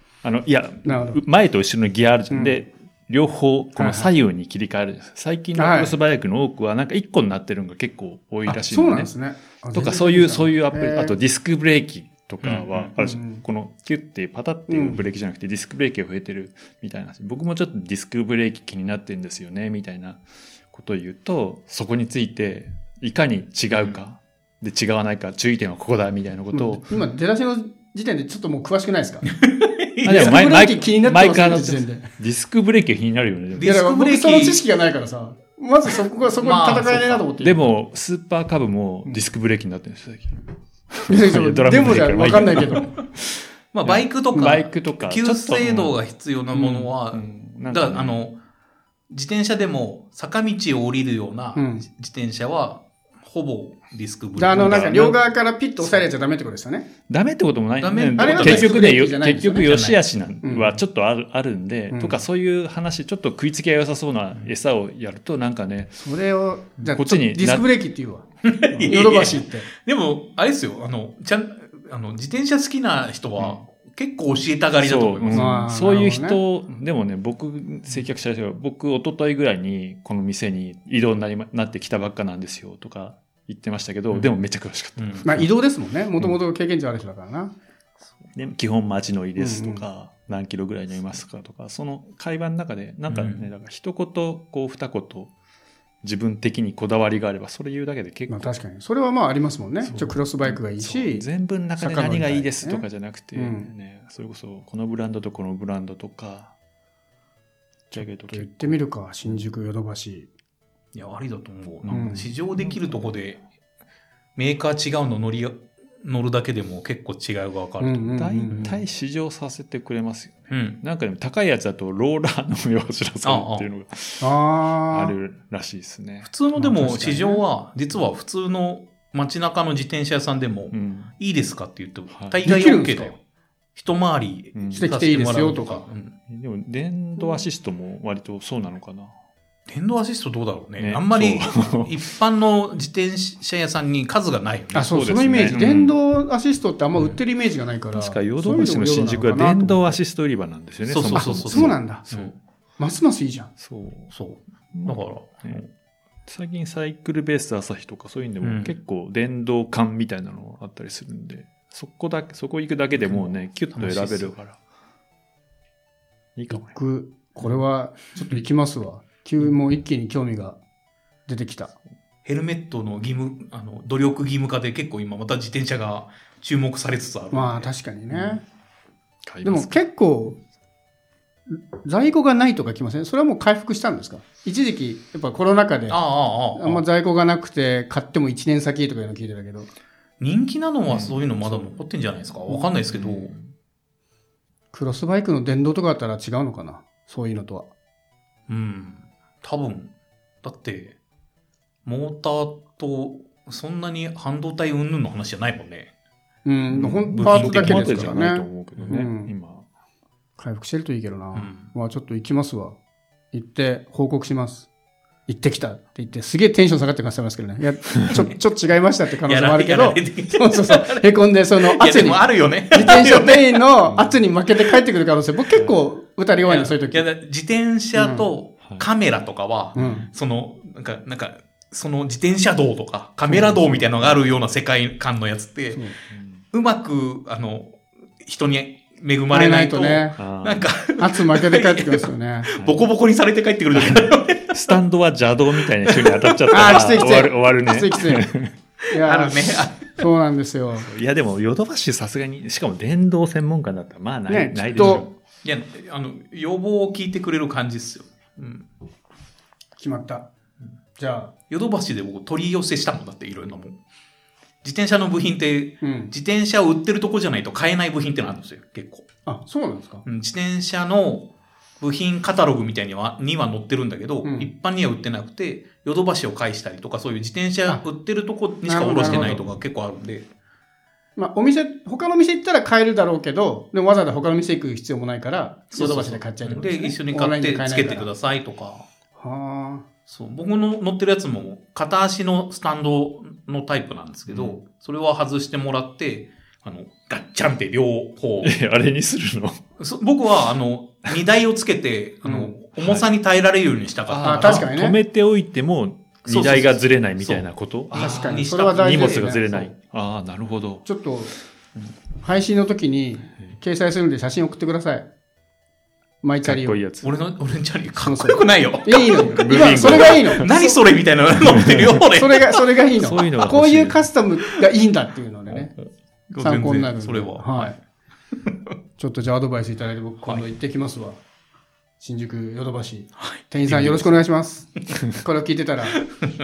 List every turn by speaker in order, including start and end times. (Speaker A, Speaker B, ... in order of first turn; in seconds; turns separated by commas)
Speaker A: 0.2-9.1, Speaker B: 0.8-1.2, Speaker B: 2.3-2.6, Speaker B: 3.8-4.1, Speaker B: 5.6-5.9, Speaker B: 8.5-11.2, Speaker A: 9.7-26.9, Speaker C: 12.4-12.9, Speaker B: 13.0-13.4, Speaker B: 14.7-15.0, Speaker B: 26.5-29.3, Speaker C: 29.4-30.4, Speaker A: 30.0-33.8, Speaker B: 30.1-32.1, Speaker C: 33.6-34.6, Speaker B: 33.6-37.7, Speaker C: 36.4-37.3, Speaker A: 37.4-46.0, Speaker B: 41.1-42.9, Speaker C: 43.7-48.4, Speaker A: 46.6-48.2, Speaker C: 49.1-55.2, Speaker B: 51.5-51.9, Speaker B: 54.4-56.9, Speaker A: 57.1-66.0, Speaker C: 57.8-58.9, Speaker B: 58.2-59.7, Speaker C: 59.6-60.0, Speaker B: 60.4-60.8, Speaker B: 61.9-62.2, Speaker B: 66.0-69.7, Speaker A: 66.8-67.7, Speaker C: 68.4-75.6, Speaker A: 74.8-85.5, Speaker B: 75.3-76.4, Speaker C: 85.0-85.3, Speaker B: 85.2-87.5, Speaker A: 88.3-95.3, Speaker B: 89.4-89.8, Speaker C: 93.1-93.5, Speaker A: 96.0-98.5, Speaker B: 98.3-101.2, Speaker A: 99.8-106.5, Speaker B: 101.8-103.7, Speaker B: 107.9-110.3, Speaker A: 107.9-109.4, Speaker C: 110.9-113.4, Speaker A: 111.8-113.1, Speaker B: 111.9-112.3, Speaker C: 114.4-118.7, Speaker B: 117.8-118.8, Speaker A: 118.2-124.3, Speaker C: 120.5-120.8, Speaker C: 123.2-123.7, Speaker B: 124.2-125.2, Speaker A: 124.9-126.6, Speaker C: 126.2-133.2, Speaker B: 126.6-127.4, Speaker A: 130.7-131.1, Speaker A: 132.1-132.4, Speaker B: 132.4-133.1, Speaker C: 133.8-136.2, Speaker A: 134.6-134.9, Speaker B: 134.7-135.8, Speaker A: 136.3-139.1, Speaker C: 139.7-145.8, Speaker A: 140.8-142.0, Speaker B: 144.7-150.0, Speaker A: 144.8-146.0, Speaker A: 147.9-152.3, Speaker C: 150.9-152.3, Speaker B: 151.1-152.1, Speaker B: 152.8-153.5, Speaker A: 153.6-154.1, Speaker C: 154.1-155.7, Speaker A: 154.7-155.6, Speaker A: 156.3-164.6, Speaker C: 158.4-158.8, Speaker C: 163.0-164.4, Speaker A: 166.4-166.8, Speaker B: 166.5-170.6, Speaker B: 171.3-171.7, Speaker C: 172.2-177.7, Speaker B: 177.3-178.4, Speaker A: 179.2-179.8, Speaker B: 179.4-180.4, Speaker B: 181.5-186.0, Speaker C: 185.9-186.8, Speaker B: 186.6-189.7, Speaker C: 190.2-193.3, Speaker A: 190.9-191.2, Speaker A: 192.9-193.4, Speaker B: 194.7-197.7, Speaker C: 198.5-201.0, Speaker C: 201.8-205.9, Speaker B: 206.4-209.3, Speaker A: 206.7-209.7, Speaker C: 207.2-208.2, Speaker B: 210.4-212.8, Speaker C: 211.3-211.7, Speaker B: 213.3-214.7, Speaker B: 215.3-227.1, Speaker C: 219.3-221.1, Speaker C: 221.6-223.6, Speaker A: 223.9-224.2, Speaker C: 226.4-235.8, Speaker B: 227.9-228.3, Speaker A: 229.7-230.1, Speaker B: 229.8-230.1, Speaker A: 233.3-234.3, Speaker A: 236.1-236.4, Speaker C: 236.5-244.7, Speaker B: 239.3-240.2, Speaker A: 240.2-240.7, Speaker B: 241.0-242.5, Speaker A: 242.6-242.8, Speaker A: 243.7-248.5, Speaker C: 245.8-246.8, Speaker B: 246.5-248.3, Speaker B: 248.9-250.9, Speaker C: 249.0-250.1, Speaker A: 250.8-255.1, Speaker B: 254.3-255.1, Speaker C: 254.8-258.7, Speaker B: 259.8-260.3, Speaker B: 261.0-261.3, Speaker C: 261.5-263.8, Speaker C: 264.6-269.1, Speaker B: 265.8-266.1, Speaker B: 269.3-270.0, Speaker C: 270.1-271.3, Speaker C: 271.8-280.3, Speaker B: 274.2-274.5, Speaker B: 278.7-279.4, Speaker B: 281.2-288.1, Speaker C: 285.7-288.9, Speaker B: 289.2-289.9, Speaker C: 290.1-298.5, Speaker A: 294.3-294.6, Speaker A: 298.4-299.6, Speaker C: 299.8-304.7, Speaker B: 302.2-302.5, Speaker A: 302.8-303.1, Speaker A: 304.1-310.9, Speaker B: 304.2-305.0, Speaker C: 306.2-309.7, Speaker B: 307.9-309.5, Speaker B: 310.9-311.3, Speaker B: 312.2-315.1, Speaker B: 316.2-316.8, Speaker A: 316.4-317.1, Speaker C: 317.0-322.6, Speaker B: 318.0-320.8, Speaker A: 319.1-320.5, Speaker A: 321.5-322.0, Speaker B: 322.1-325.7, Speaker A: 323.0-324.1, Speaker C: 325.5-327.8, Speaker B: 326.4-327.8, Speaker B: 329.0-331.2, Speaker B: 332.0-336.0, Speaker C: 333.2-334.2